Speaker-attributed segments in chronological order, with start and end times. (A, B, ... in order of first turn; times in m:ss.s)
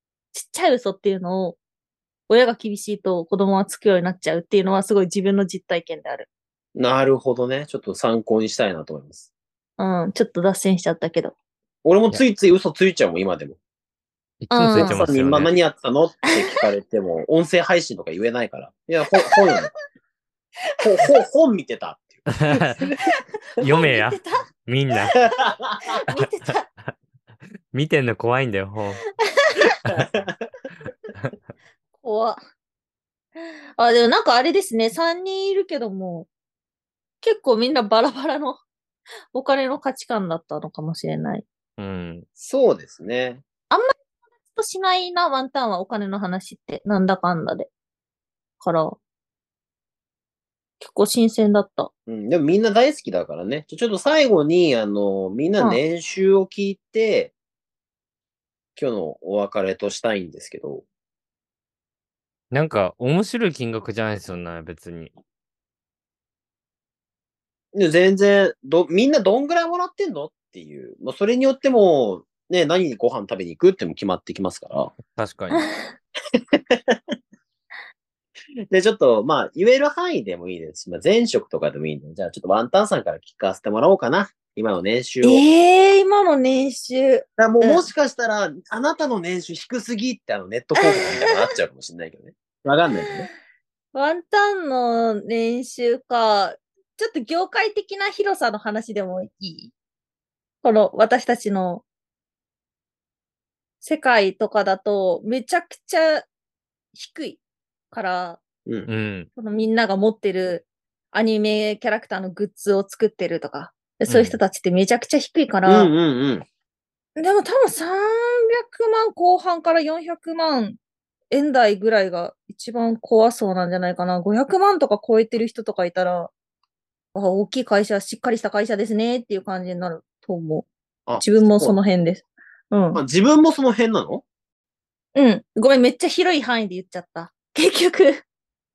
0:00.3-0:01.6 A
0:02.3-0:06.3 A
0:06.8-0:09.3 B
0:09.8-0:11.3 A
0:11.8-0:13.6 B
0:14.4-0:15.6 C
0:14.5-0:15.0 A
0:14.7-0:19.7 B
0:19.2-0:19.5 A
0:20.7-0:21.1 A
0:20.8-0:23.0 B
0:22.3-0:22.9 C
0:23.0-0:24.4 A
0:23.6-0:25.2 C
0:25.3-0:25.8 B
0:25.9-0:26.6 A
0:27.7-0:29.0 C
0:29.9-0:30.4 B
0:32.0-0:32.4 A
0:33.8-0:36.3 A
0:37.2-0:38.6 A
0:39.3-0:41.4 A
0:41.8-0:42.3 C
0:42.4-0:43.4 B
0:44.5-0:47.7 A
0:48.6-0:49.0 A
0:50.8-0:51.9 A
0:52.1-0:57.3 B
0:58.8-1:00.8 B
1:02.5-1:05.1 C
1:07.7-1:15.0 B
1:15.1-1:15.7 C
1:15.5-1:15.8 A
1:16.4-1:17.0 B
1:18.7-1:25.4 B
1:25.2-1:27.9 A
1:27.4-1:33.3 B
1:30.8-1:31.5 A
1:33.9-1:39.7 A
1:40.6-1:41.8 A
1:43.8-1:46.3 A
1:46.9-1:48.4 A
1:48.9-1:49.3 C
1:49.4-1:55.9 A
1:54.1-1:54.4 C
1:55.7-1:56.5 B
1:57.2-2:00.8 A
2:01.3-2:06.3 A
2:07.1-2:10.7 A
2:11.1-2:11.8 B
2:11.2-2:13.0 A
2:12.9-2:14.2 B
2:15.2-2:18.2 A